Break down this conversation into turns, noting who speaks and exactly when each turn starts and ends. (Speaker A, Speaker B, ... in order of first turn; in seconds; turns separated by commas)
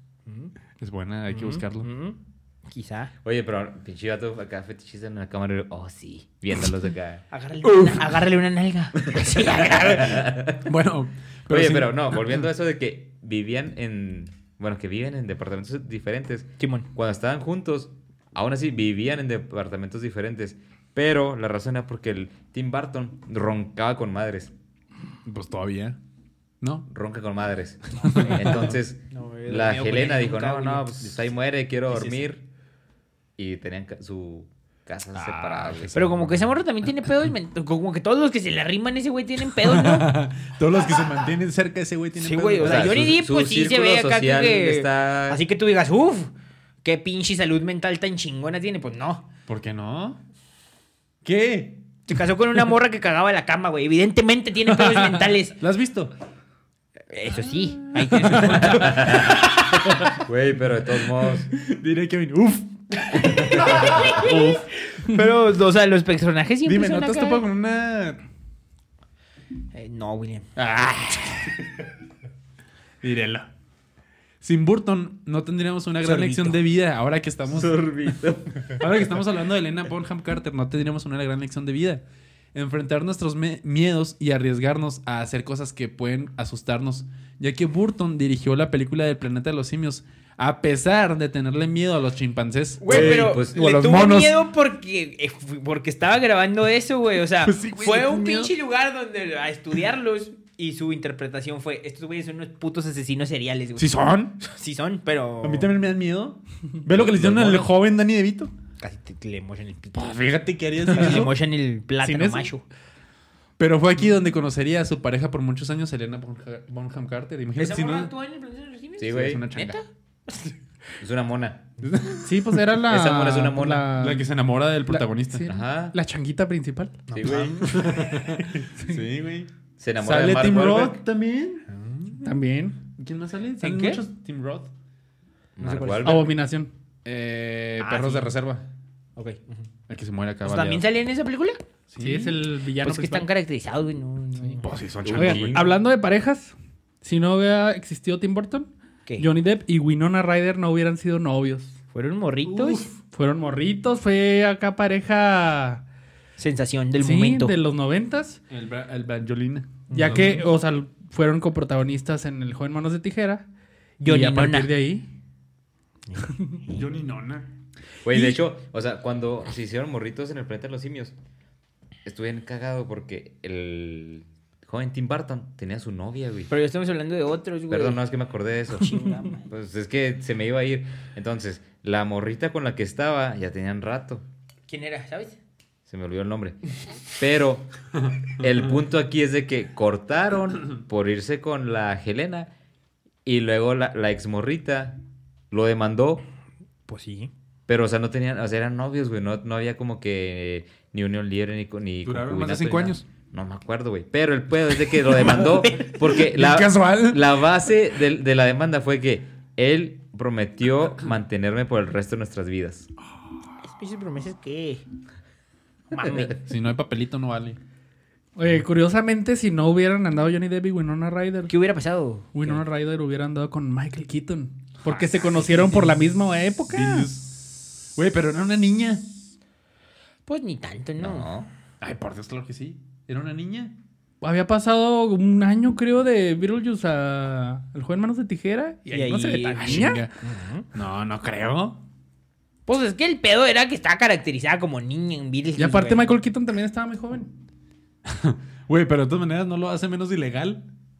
Speaker A: 0.2-0.5, Speaker B: 0.8-1.9, Speaker A: 1.3-3.1, Speaker C: 3.2-7.2, Speaker A: 7.3-10.3, Speaker B: 7.6-8.1, Speaker C: 9.8-10.7, Speaker B: 10.1-12.4, Speaker C: 11.5-24.5, Speaker A: 16.6-16.9, Speaker B: 25.2-26.0, Speaker B: 26.6-26.9, Speaker C: 26.9-32.4, Speaker B: 28.0-28.7, Speaker A: 29.1-30.9, Speaker B: 31.9-32.2, Speaker C: 33.4-36.4, Speaker B: 35.1-36.0, Speaker A: 35.9-40.1, Speaker B: 39.5-43.2, Speaker A: 42.2-46.3, Speaker C: 42.6-45.4, Speaker A: 46.8-49.3, Speaker B: 49.5-50.2, Speaker B: 51.2-51.8, Speaker A: 52.1-55.6, Speaker B: 55.6-56.1, Speaker A: 57.1-59.3, Speaker B: 57.8-60.1, Speaker C: 58.6-61.5, Speaker B: 61.5-64.6, Speaker A: 63.3-67.4, Speaker B: 66.6-68.2, Speaker A: 69.7-70.5, Speaker B: 70.5-71.6, Speaker B: 73.0-73.5, Speaker B: 74.4-77.8, Speaker C: 76.0-76.5, Speaker C: 77.5-78.8, Speaker B: 78.7-94.4, Speaker A: 92.8-105.7, Speaker C: 92.9-93.6, Speaker B: 97.4-98.5, Speaker B: 103.8-104.4, Speaker B: 105.4-108.5, Speaker C: 106.9-107.7, Speaker A: 108.8-110.2, Speaker B: 109.9-111.3, Speaker A: 110.8-112.6, Speaker D: 112.0-112.4, Speaker B: 113.6-118.1, Speaker A: 117.5-120.5, Speaker C: 119.0-119.5, Speaker B: 119.1-119.8, Speaker C: 121.0-121.6, Speaker B: 121.8-122.6, Speaker D: 122.2-124.2, Speaker C: 122.9-123.9, Speaker B: 124.0-125.5, Speaker D: 124.9-127.0, Speaker C: 125.5-126.0, Speaker C: 127.1-127.7, Speaker A: 127.2-128.3, Speaker B: 127.2-131.6, Speaker C: 129.8-131.0, Speaker A: 131.7-132.2, Speaker D: 132.2-132.8, Speaker B: 132.9-134.7, Speaker A: 133.6-134.0, Speaker C: 135.6-136.3, Speaker A: 135.6-136.3, Speaker D: 136.0-136.7, Speaker B: 137.0-138.6, Speaker A: 137.8-138.3, Speaker A: 139.2-139.7, Speaker B: 139.9-140.8, Speaker A: 140.4-141.6, Speaker B: 141.9-142.4, Speaker D: 142.0-143.3, Speaker A: 142.8-144.7, Speaker B: 144.6-145.7, Speaker C: 145.0-145.7, Speaker D: 145.1-151.7, Speaker A: 151.9-152.9, Speaker B: 152.4-152.9, Speaker D: 153.1-155.8, Speaker A: 156.4-157.5, Speaker D: 157.0-158.4, Speaker B: 158.5-160.4, Speaker D: 159.9-163.4, Speaker A: 164.0-164.7, Speaker D: 164.0-165.1, Speaker A: 166.1-166.9, Speaker B: 166.7-167.4, Speaker C: 168.0-171.1, Speaker C: 172.0-176.5, Speaker A: 176.5-178.0, Speaker C: 177.7-184.2, Speaker A: 178.8-179.5, Speaker A: 184.7-185.4, Speaker C: 185.9-187.7, Speaker C: 188.2-192.5, Speaker C: 193.2-195.0, Speaker C: 195.5-196.2, Speaker A: 196.9-197.3, Speaker C: 197.7-212.9, Speaker B: 202.0-203.0, Speaker A: 205.7-205.9, Speaker B: 206.0-207.3, Speaker A: 213.6-214.8, Speaker A: 215.9-216.4, Speaker B: 216.4-217.6, Speaker D: 218.3-221.5, Speaker A: 221.5-222.6, Speaker D: 222.3-227.1, Speaker B: 224.9-225.9, Speaker B: 226.7-229.2, Speaker A: 230.2-231.3, Speaker C: 231.0-231.5, Speaker B: 231.8-233.8, Speaker D: 234.2-240.0, Speaker A: 238.9-240.7, Speaker B: 239.6-240.1, Speaker B: 240.7-241.8, Speaker A: 242.7-246.1, Speaker D: 245.6-247.3, Speaker B: 248.1-250.7